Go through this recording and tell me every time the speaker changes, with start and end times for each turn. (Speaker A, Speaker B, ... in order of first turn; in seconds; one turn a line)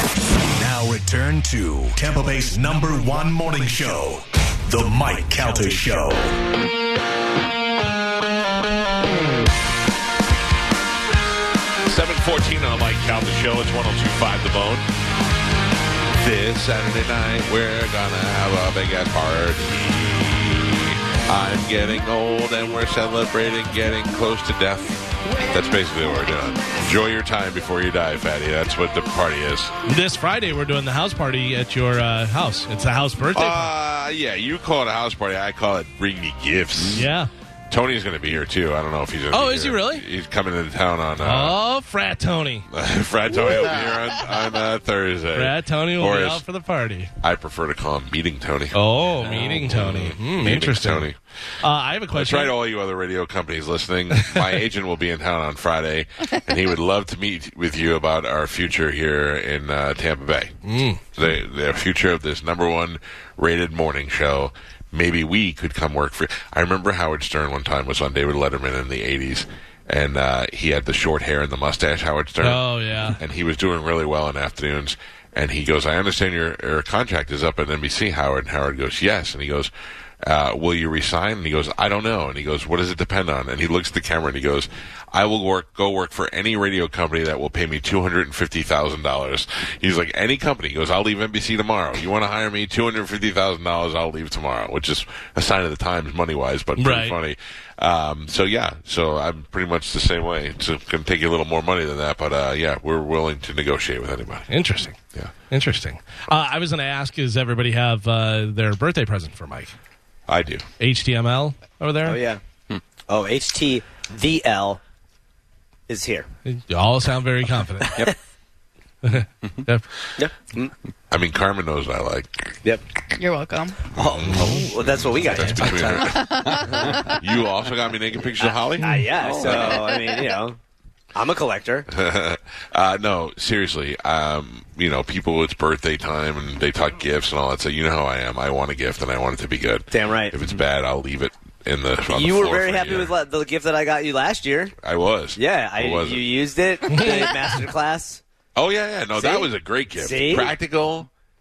Speaker A: 0.5-6.4
Speaker B: 11.9-14.9
Speaker B: 16.1-29.7
Speaker C: 29.9-33.7
Speaker B: 33.3-37.1
Speaker C: 36.9-37.3
Speaker B: 37.7-41.6
Speaker C: 39.3-40.1
Speaker C: 41.2-42.7
Speaker B: 42.7-46.4
Speaker C: 45.3-47.1
Speaker B: 47.2-51.2
Speaker C: 48.7-51.1
Speaker C: 51.6-52.5
Speaker B: 52.1-60.6
Speaker C: 54.2-54.5
Speaker C: 60.6-61.0
Speaker B: 61.1-79.7
Speaker C: 72.4-73.2
Speaker B: 80.2-104.5
Speaker C: 96.8-97.2
Speaker C: 104.5-105.0
Speaker C: 105.5-109.8
Speaker B: 110.3-110.7
Speaker C: 110.8-112.2
Speaker D: 112.0-112.4
Speaker D: 113.1-114.8
Speaker D: 115.9-116.3
Speaker C: 116.5-117.9
Speaker D: 117.8-118.2
Speaker C: 119.0-119.8
Speaker D: 120.2-120.7
Speaker B: 121.1-122.6
Speaker E: 123.2-123.8
Speaker D: 124.0-127.0
Speaker B: 124.0-129.7
Speaker E: 126.1-127.2
Speaker D: 128.4-130.6
Speaker C: 128.8-129.1
Speaker E: 129.8-130.3
Speaker D: 131.1-131.9
Speaker B: 131.9-143.1
Speaker D: 139.9-140.4
Speaker D: 142.1-144.8
Speaker B: 144.8-146.2
Speaker D: 145.3-148.2
Speaker C: 146.9-147.3
Speaker B: 148.6-151.1
Speaker D: 149.2-150.6